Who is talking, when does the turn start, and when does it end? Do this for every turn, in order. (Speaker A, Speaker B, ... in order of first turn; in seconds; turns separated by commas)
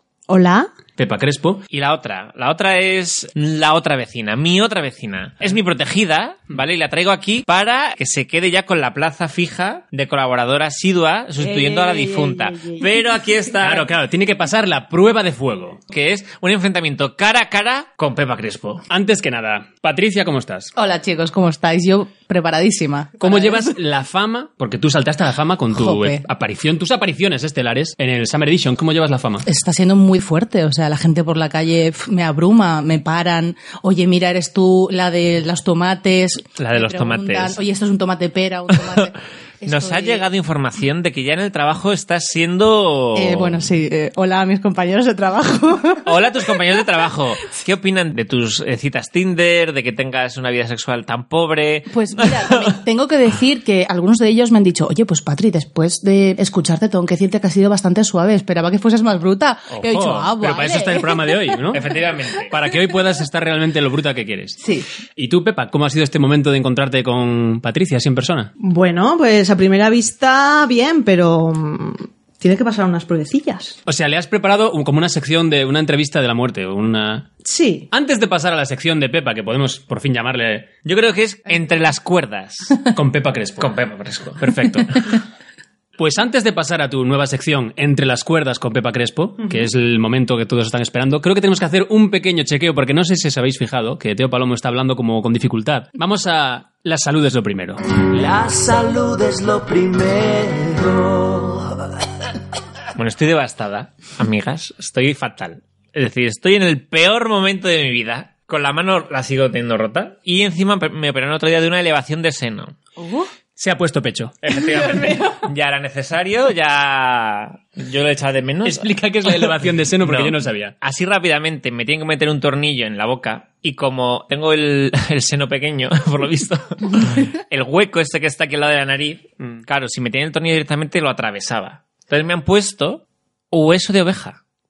Speaker A: 0.3-0.7, Speaker B: 1.0-1.6, Speaker C: 1.7-13.9, Speaker A: 11.4-12.8, Speaker D: 11.5-12.1, Speaker B: 13.6-15.8, Speaker C: 15.9-18.8, Speaker B: 18.9-20.7, Speaker D: 20.8-23.5, Speaker B: 23.2-29.5, Speaker D: 25.7-26.2, Speaker D: 29.5-40.2, Speaker B: 36.6-37.5, Speaker C: 36.7-37.5, Speaker C: 39.7-43.7, Speaker D: 43.1-46.1, Speaker C: 46.0-52.8, Speaker D: 51.9-61.5, Speaker C: 59.7-60.4, Speaker B: 60.4-61.9, Speaker C: 61.7-62.5, Speaker B: 62.5-64.6, Speaker D: 64.6-64.9, Speaker B: 65.2-68.5, Speaker A: 68.6-73.8, Speaker B: 73.9-77.3, Speaker A: 77.4-77.9, Speaker B: 77.9-80.7, Speaker C: 80.8-82.9, Speaker B: 82.9-83.8, Speaker C: 83.6-85.2, Speaker B: 84.4-85.0, Speaker B: 86.0-97.8, Speaker E: 98.0-101.9, Speaker C: 103.0-112.8, Speaker D: 113.0-113.3, Speaker B: 113.6-114.5, Speaker C: 114.4-134.4, Speaker D: 114.8-115.4, Speaker B: 118.6-120.8, Speaker B: 129.4-129.7